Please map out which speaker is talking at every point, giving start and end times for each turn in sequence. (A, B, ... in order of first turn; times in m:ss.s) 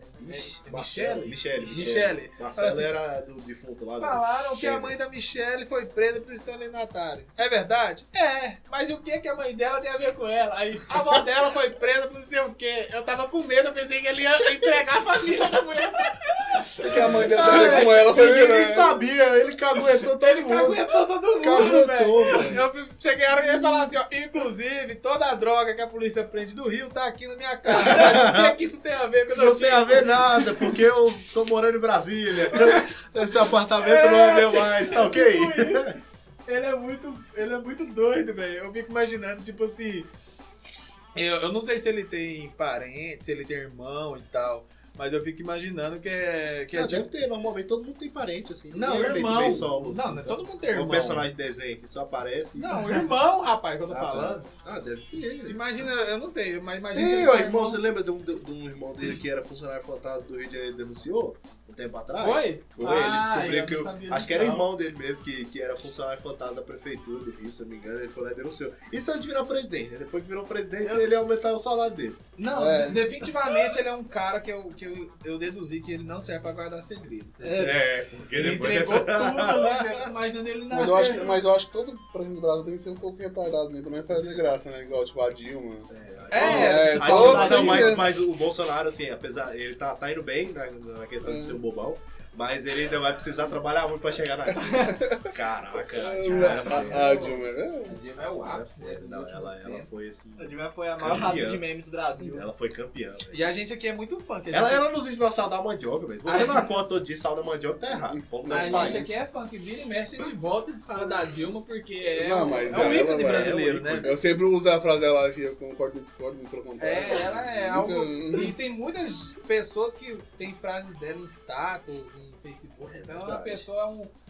0:00.2-0:05.0 A
0:00.3-0:02.9 B
0:04.0-0:17.9 B
0:16.8-0:19.1 C
0:16.9-0:20.8 A
0:20.0-0:30.8 B
0:21.4-0:22.6 A
0:22.2-0:22.6 C
0:27.7-0:28.5 A
0:29.3-0:35.9 A
0:32.5-0:32.9 B
0:33.8-0:35.9 B
0:36.4-0:40.1 B
0:41.1-0:47.1 B
0:46.7-0:53.0 A
0:48.7-0:51.2 B
0:52.6-0:54.4 B
0:53.9-0:55.6 A
0:55.4-0:57.8 B
0:56.9-1:12.2 A
1:02.2-1:04.7 B
1:12.4-1:17.8 B
1:12.5-1:13.1 C
1:17.4-1:17.8 D
1:17.6-1:20.0 A
1:18.3-1:21.4 B
1:20.7-1:28.0 C
1:25.9-1:37.4 A
1:26.3-1:28.0 B
1:31.2-1:31.6 C
1:34.6-1:38.0 C
1:36.2-1:39.9 B
1:38.2-1:41.6 A
1:40.4-1:42.5 D
1:42.2-1:43.4 A
1:43.3-1:44.8 B
1:44.5-1:49.2 A
1:46.2-1:46.7 B
1:47.9-1:49.1 C
1:48.5-1:54.2 B
1:52.1-1:58.5 C
1:52.7-1:54.4 A
1:56.8-2:04.1 B
2:02.8-2:03.6 A